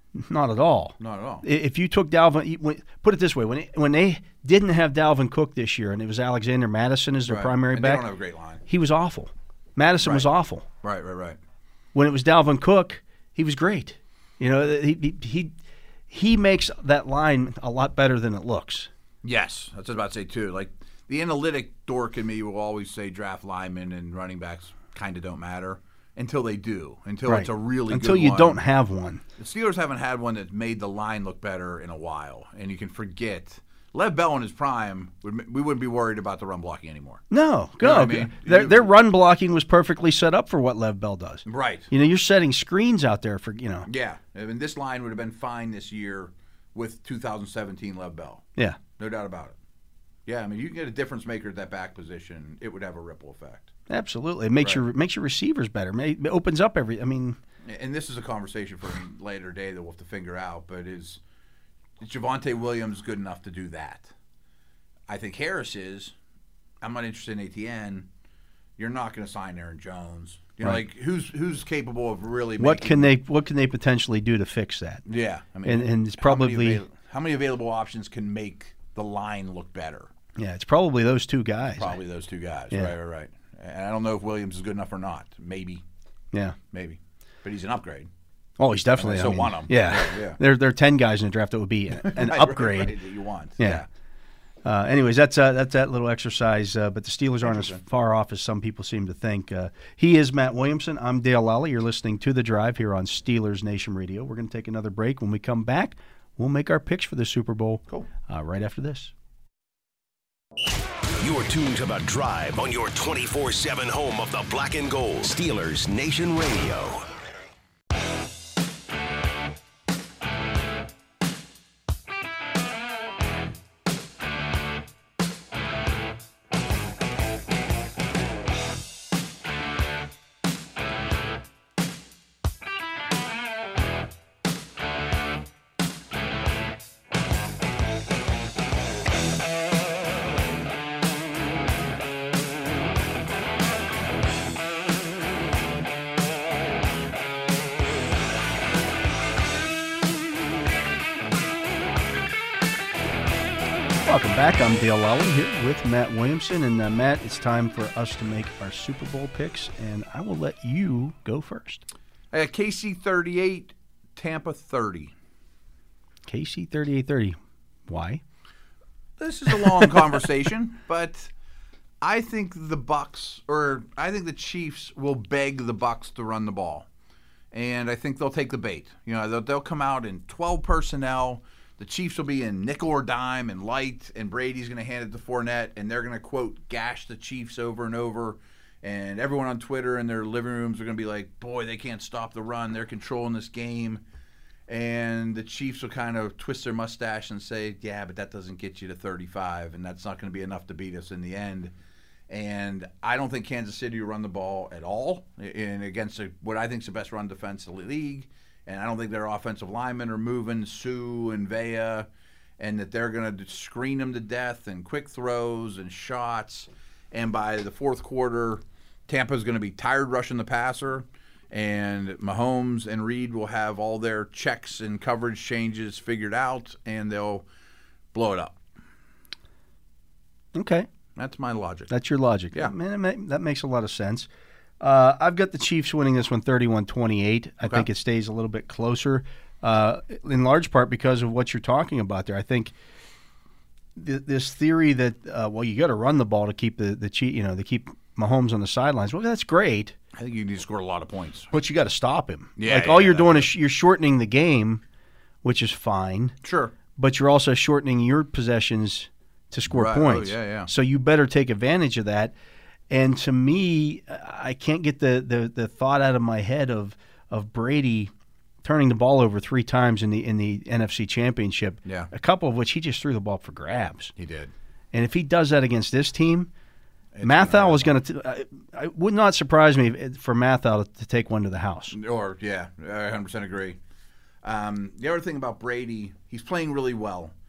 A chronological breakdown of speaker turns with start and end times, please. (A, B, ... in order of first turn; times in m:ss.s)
0:00.1-0:08.1 A
0:01.0-0:01.4 B
0:07.3-0:08.6 B
0:08.6-0:10.6 A
0:10.0-0:10.3 B
0:10.8-0:11.4 B
0:11.9-0:15.5 A
0:16.1-0:18.9 A
0:19.2-0:28.6 B
0:27.2-0:29.2 A
0:29.4-0:37.2 B
0:37.3-0:43.9 A
0:37.8-0:38.9 B
0:41.4-0:41.9 B
0:43.8-0:48.4 B
0:49.0-0:49.6 B
0:50.2-0:53.7 B
0:53.9-0:57.4 A
0:57.6-1:01.2 B
1:02.0-1:04.1 B
1:05.1-1:06.1 B
1:06.8-1:08.1 B
1:08.8-1:13.1 B
1:12.6-1:15.0 A
1:15.0-1:20.1 B
1:15.6-1:16.8 A
1:20.4-1:22.0 A
1:21.8-1:25.8 B
1:26.7-1:28.1 B
1:28.6-1:33.0 A
1:29.0-1:30.4 B
1:31.9-1:33.8 B
1:33.6-1:33.8 A
1:34.6-1:49.1 A
1:37.4-1:37.8 B
1:51.2-1:57.1 C
2:34.0-2:41.8 A
2:42.3-2:45.1 B
2:46.3-2:48.2 A
2:49.2-2:51.3 B
2:52.0-2:56.9 B
2:57.5-3:14.0 B
3:14.7-3:21.7 B
3:22.3-3:32.1 B
3:32.6-3:47.4 B
3:48.1-3:48.6 B
3:50.5-3:50.9 A
3:51.2-3:51.9 B
3:51.9-3:54.3 A
3:54.8-4:02.7 A
3:57.6-3:57.9 B
4:04.0-4:09.9 A
4:10.1-4:11.5 B
4:11.5-4:14.8 A
4:12.6-4:13.5 B
4:15.4-4:16.4 A
4:16.4-4:16.7 B
4:17.0-4:22.3 A
4:19.7-4:20.7 B
4:22.9-4:28.1 A
4:28.6-4:34.1 A
4:31.8-4:32.1 B
4:34.2-4:34.5 B
4:34.9-4:36.5 A
4:37.1-4:38.0 B
4:37.2-4:42.0 A
4:41.9-4:43.8 B
4:44.4-4:47.3 B